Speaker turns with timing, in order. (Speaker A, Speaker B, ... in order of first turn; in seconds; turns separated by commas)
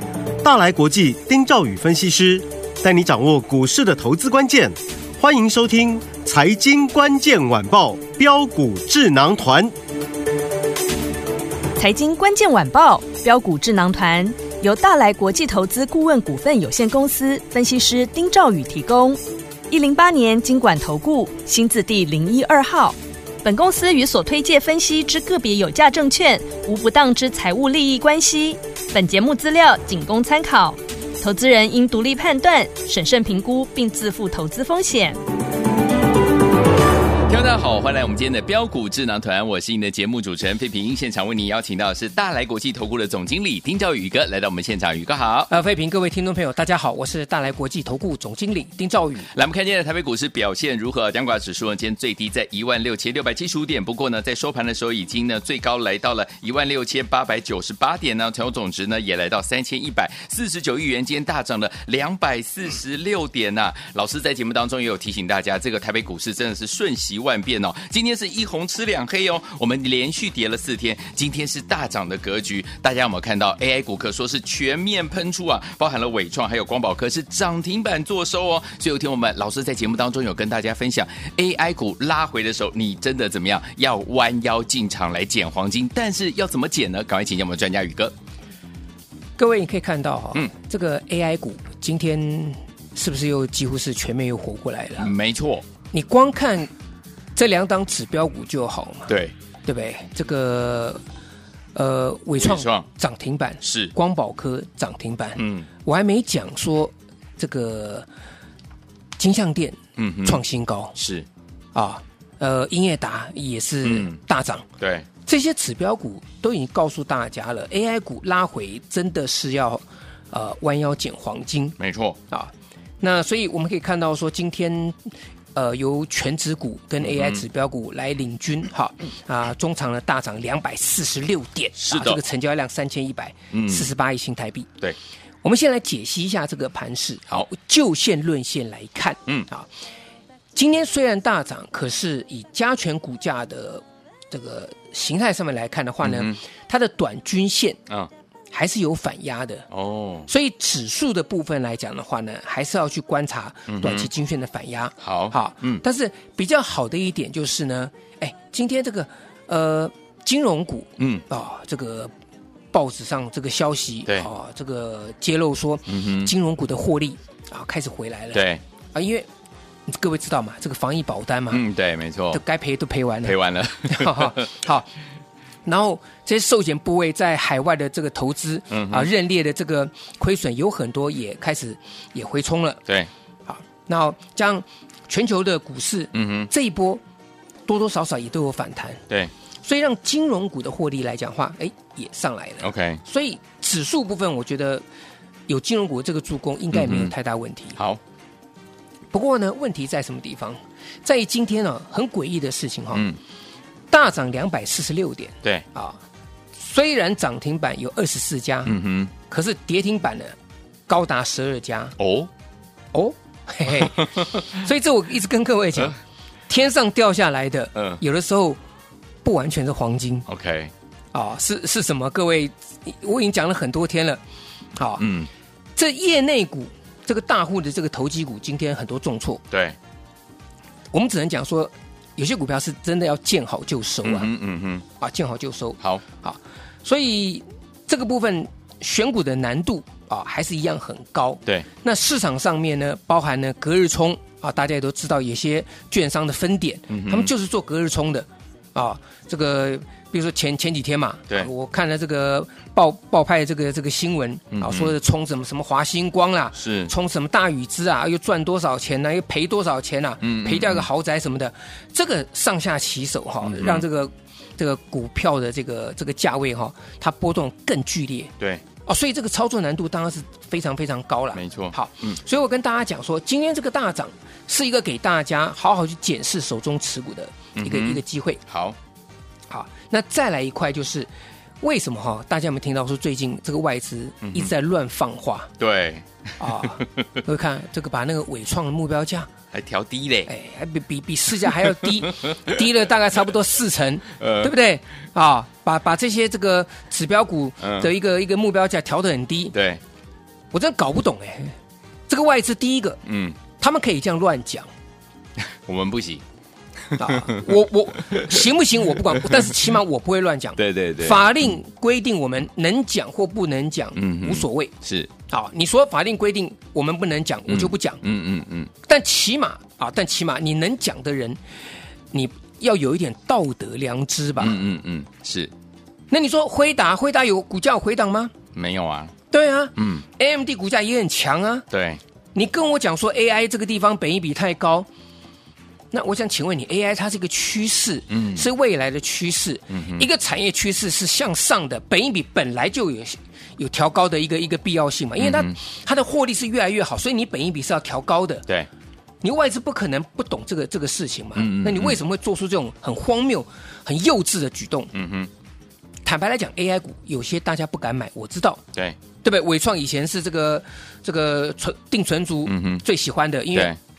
Speaker A: 0.4-9.7, Speaker B: 11.8-19.2, Speaker B: 19.7-35.2, Speaker C: 37.3-45.5, Speaker D: 45.5-49.3, Speaker C: 49.3-88.1, Speaker D: 89.4-95.1, Speaker C: 95.0-95.6, Speaker D: 95.9-96.7, Speaker D: 97.3-99.1, Speaker C: 99.1-99.3, Speaker D: 99.6-101.0, Speaker D: 101.7-108.1, Speaker C: 102.4-102.9, Speaker C: 103.6-103.9, Speaker C: 105.4-105.7, Speaker D: 109.2-110.9, Speaker C: 110.0-110.4, Speaker C: 111.0-111.3, Speaker D: 111.7-114.7, Speaker C: 113.8-114.2, Speaker C: 114.8-115.1, Speaker D: 115.2-121.8, Speaker C: 121.8-122.2, Speaker D: 122.3-134.7, Speaker C: 127.0-127.4, Speaker C: 131.8-132.2, Speaker C: 133.5-133.9, Speaker D: 135.4-139.7, Speaker D: 140.5-147.8, Speaker C: 146.0-146.4, Speaker D: 148.5-149.7, Speaker C: 149.7-150.3, Speaker D: 150.3-162.1, Speaker C: 153.7-154.1, Speaker C: 155.0-155.8, Speaker C: 161.0-161.2, Speaker D: 162.7-169.3, Speaker C: 165.9-166.3, Speaker C: 168.3-168.6, Speaker D: 169.9-171.6, Speaker C: 171.5-172.4, Speaker D: 172.3-174.9, Speaker C: 173.2-174.5, Speaker D: 175.6-182.8, Speaker C: 178.7-179.1, Speaker D: 183.5-187.0, Speaker C: 186.1-186.5, Speaker D: 187.7-189.0, Speaker D: 189.6-194.8, Speaker C: 192.6-193.0, Speaker D: 195.5-197.8, Speaker C: 196.7-197.1, Speaker D: 199.1-203.1, Speaker D: 203.9-206.0, Speaker D: 206.6-208.8, Speaker C: 208.7-209.1, Speaker D: 209.3-210.3, Speaker D: 210.9-211.9, Speaker C: 212.0-212.3, Speaker D: 212.9-218.6, Speaker C: 213.9-214.2, Speaker D: 219.2-220.3, Speaker C: 220.3-220.7, Speaker D: 221.1-224.2, Speaker D: 224.8-225.0, Speaker C: 225.0-225.3, Speaker D: 225.8-229.4, Speaker C: 229.5-229.8, Speaker D: 230.9-234.3, Speaker C: 234.0-234.8, Speaker D: 234.9-268.3, Speaker C: 246.9-247.3, Speaker C: 254.5-254.9, Speaker C: 256.5-256.9, Speaker C: 260.2-260.9, Speaker C: 263.4-263.9, Speaker D: 268.8-278.4, Speaker C: 271.3-272.2, Speaker C: 277.6-278.8, Speaker D: 279.5-281.1, Speaker D: 281.6-285.5, Speaker C: 284.2-284.5, Speaker C: 285.6-287.0, Speaker D: 286.4-289.3, Speaker C: 289.5-290.3, Speaker D: 290.3-299.6, Speaker C: 294.2-294.5, Speaker C: 297.6-297.9, Speaker C: 299.5-299.8, Speaker D: 300.5-301.5, Speaker D: 302.1-303.0, Speaker C: 303.1-303.4, Speaker D: 303.6-304.7, Speaker C: 305.6-306.2, Speaker D: 306.9-314.7, Speaker C: 307.0-307.5, Speaker C: 308.1-308.4, Speaker C: 310.6-311.4, Speaker C: 313.9-315.1, Speaker D: 315.3-318.0, Speaker C: 317.5-318.7, Speaker D: 318.8-321.4, Speaker D: 322.1-324.6, Speaker C: 324.4-325.5, Speaker D: 326.1-328.3, Speaker C: 328.5-329.1, Speaker D: 329.3-331.6, Speaker C: 329.8-330.0, Speaker C: 331.7-332.0, Speaker D: 332.3-334.9, Speaker D: 335.9-348.4, Speaker C: 338.1-338.4, Speaker C: 339.7-340.0, Speaker C: 345.2-345.5, Speaker D: 349.2-354.9, Speaker C: 351.3-352.0, Speaker C: 354.9-355.3, Speaker D: 356.0-358.6, Speaker D: 359.2-363.8, Speaker C: 362.4-362.8